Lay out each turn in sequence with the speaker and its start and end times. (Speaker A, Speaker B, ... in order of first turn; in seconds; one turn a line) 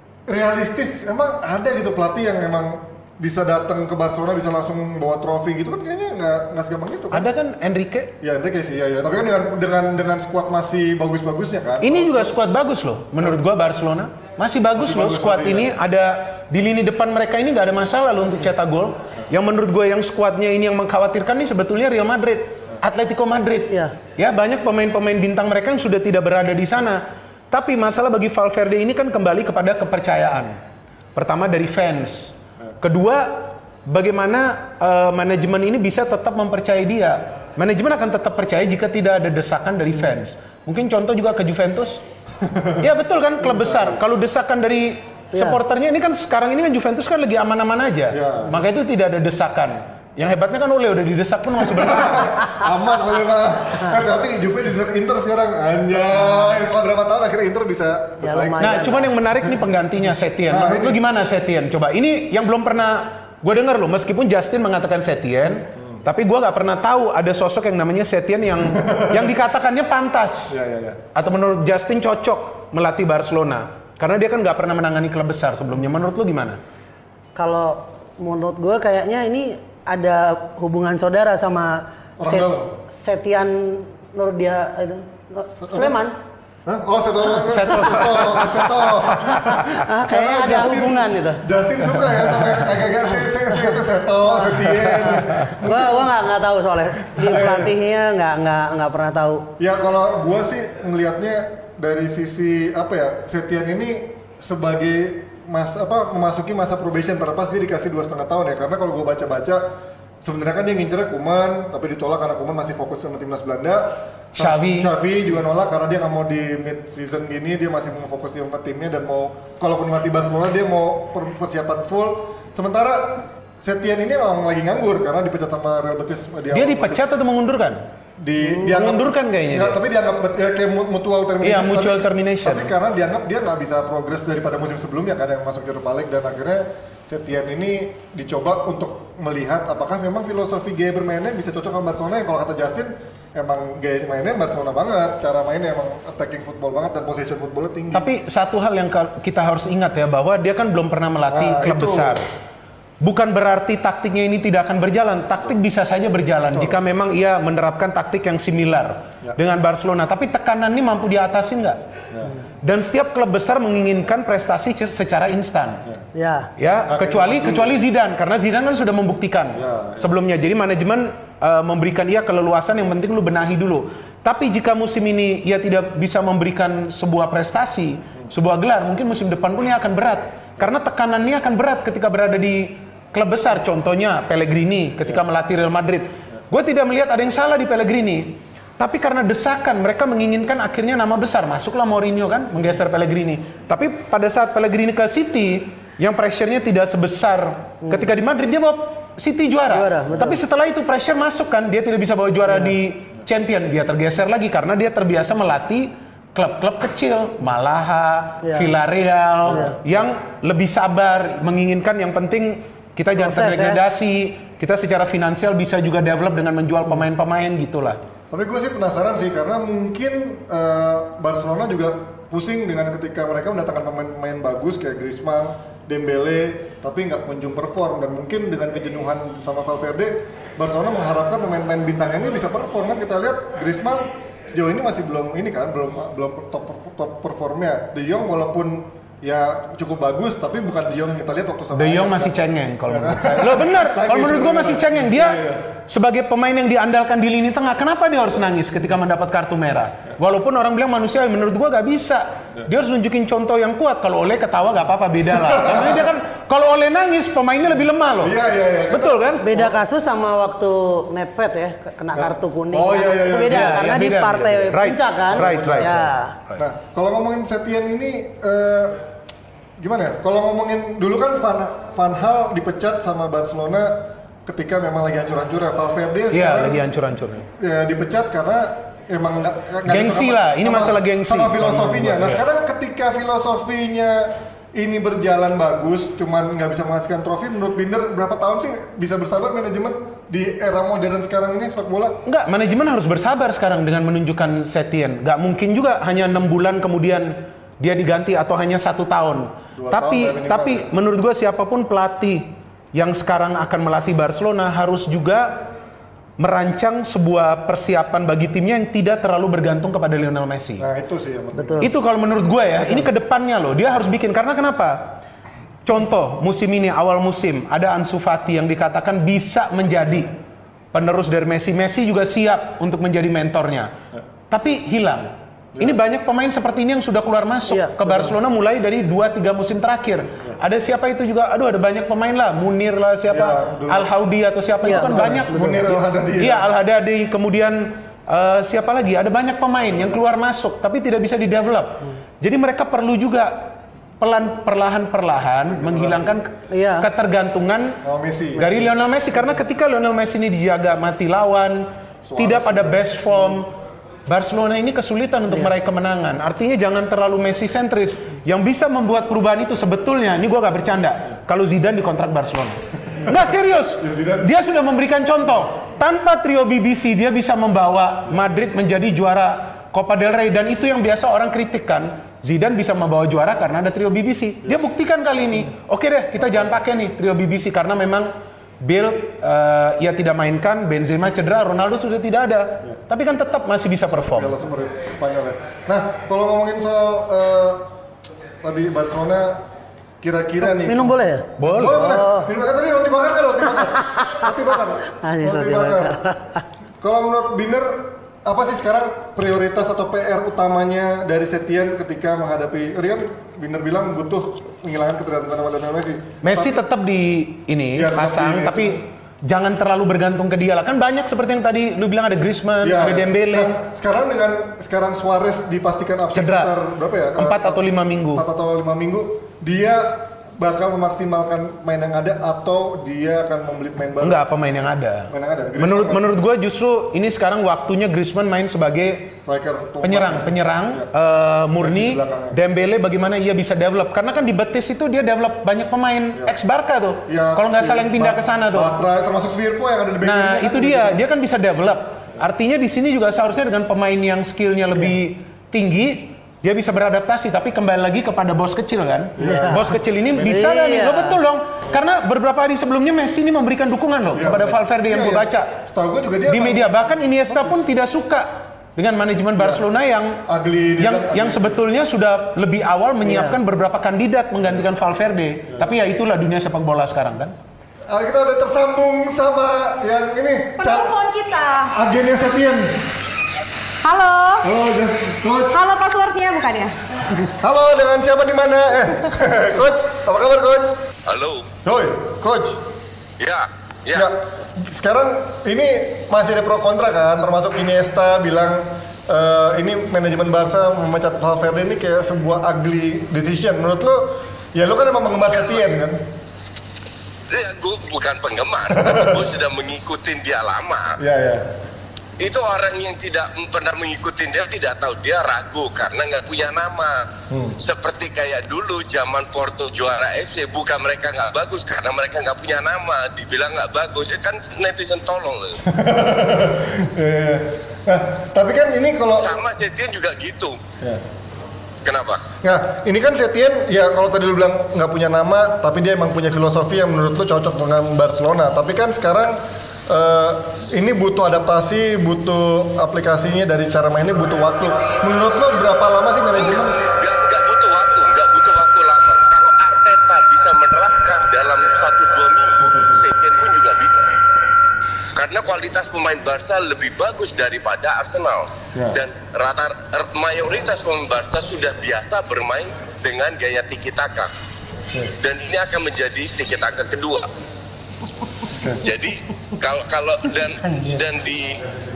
Speaker A: 0.3-7.3
Speaker B: 7.1-8.1
Speaker A: 8.2-12.4
Speaker B: 11.8-30.6
Speaker A: 14.8-15.7
Speaker B: 31.1-42.0
Speaker A: 42.4-42.9
Speaker B: 42.8-52.5
Speaker A: 43.4-44.0
Speaker A: 48.1-48.5
Speaker A: 51.8-59.0
Speaker C: 58.2-59.1
Speaker B: 58.6-70.5
Speaker A: 60.5-61.0
Speaker A: 65.8-66.0
Speaker A: 68.8-69.3
Speaker A: 70.5-71.0
Speaker B: 71.2-76.6
Speaker C: 77.4-86.2
Speaker A: 82.2-82.7
Speaker A: 85.6-86.0
Speaker A: 86.7-96.1
Speaker B: 87.5-88.6
Speaker C: 89.8-91.4
Speaker C: 94.4-99.5
Speaker A: 97.2-97.7
Speaker A: 99.6-109.6
Speaker A: 110.2-127.0
Speaker B: 114.4-114.9
Speaker B: 126.5-127.8
Speaker A: 128.2-148.1
Speaker B: 128.6-129.8
Speaker B: 131.4-132.7
Speaker B: 147.9-152.2
Speaker A: 151.3-152.2
Speaker B: 153.0-161.8
Speaker B: 162.6-165.8
Speaker C: 166.2-166.5
Speaker B: 166.6-218.0
Speaker A: 166.9-167.8
Speaker A: 169.6-170.1
Speaker C: 199.7-200.4
Speaker C: 202.5-202.8
Speaker C: 208.4-208.7
Speaker A: 209.5-209.8
Speaker C: 209.5-209.8
Speaker C: 213.2-213.8
Speaker A: 218.3-245.7
Speaker B: 241.7-258.4
Speaker A: 255.5-256.1
Speaker A: 258.2-259.7
Speaker B: 258.9-259.4
Speaker C: 259.4-266.4
Speaker A: 262.1-264.0
Speaker B: 263.5-266.0
Speaker A: 265.4-269.0
Speaker A: 269.8-292.2
Speaker B: 276.3-277.4
Speaker B: 279.9-282.4
Speaker B: 292.3-305.6
Speaker A: 299.8-300.9
Speaker B: 306.4-310.9
Speaker A: 310.8-311.9
Speaker C: 311.6-311.9
Speaker B: 311.8-315.2
Speaker B: 315.9-320.3
Speaker B: 320.9-323.9
Speaker B: 324.5-348.0
Speaker C: 327.7-328.3
Speaker A: 333.3-334.1
Speaker C: 334.9-335.9
Speaker A: 334.9-336.7
Speaker A: 345.7-346.4
Speaker C: 346.7-347.1
Speaker A: 348.0-348.8
Speaker B: 348.6-351.9
Speaker A: 352.2-353.1
Speaker B: 352.4-353.7
Speaker B: 354.3-378.3
Speaker A: 364.0-364.5
Speaker A: 376.4-376.7
Speaker B: 378.8-384.6
Speaker A: 384.1-387.9
Speaker A: 388.6-389.6
Speaker A: 390.2-396.2
Speaker C: 390.7-392.5
Speaker B: 391.6-392.2
Speaker C: 394.0-394.5
Speaker C: 395.1-396.6
Speaker A: 397.0-406.8
Speaker B: 406.4-413.7
Speaker A: 408.0-409.0
Speaker A: 412.8-424.4
Speaker B: 416.3-416.7
Speaker B: 417.4-418.5
Speaker B: 424.2-429.3
Speaker A: 425.3-426.2
Speaker A: 429.4-431.1
Speaker B: 430.0-438.9
Speaker A: 431.8-432.6
Speaker A: 437.3-441.2
Speaker B: 440.2-455.7
Speaker A: 449.4-449.9
Speaker C: 449.4-451.4
Speaker A: 454.3-457.8
Speaker B: 456.5-460.4
Speaker A: 459.6-459.8
Speaker A: 460.5-461.8
Speaker B: 461.0-467.6
Speaker C: 463.2-463.6
Speaker A: 468.1-471.2
Speaker D: 470.8-471.9
Speaker A: 471.9-473.1
Speaker D: 474.0-474.7
Speaker A: 474.6-475.8
Speaker D: 475.7-476.9
Speaker A: 477.4-481.0
Speaker E: 481.3-481.7
Speaker A: 481.8-482.8
Speaker E: 483.4-484.3
Speaker A: 484.1-496.2
Speaker E: 497.5-501.2
Speaker A: 498.9-499.5
Speaker A: 501.2-501.7
Speaker E: 502.4-507.3
Speaker A: 507.5-507.8
Speaker E: 507.8-515.8
Speaker A: 515.9-519.6
Speaker E: 519.4-520.8
Speaker E: 522.0-522.5
Speaker A: 522.6-537.0
Speaker E: 536.6-544.1
Speaker A: 542.8-543.2
Speaker E: 545.4-554.5
Speaker A: 549.0-549.2
Speaker A: 555.1-555.3
Speaker E: 555.4-557.5
Speaker A: 558.7-559.0
Speaker E: 559.0-561.8
Speaker C: 560.9-561.2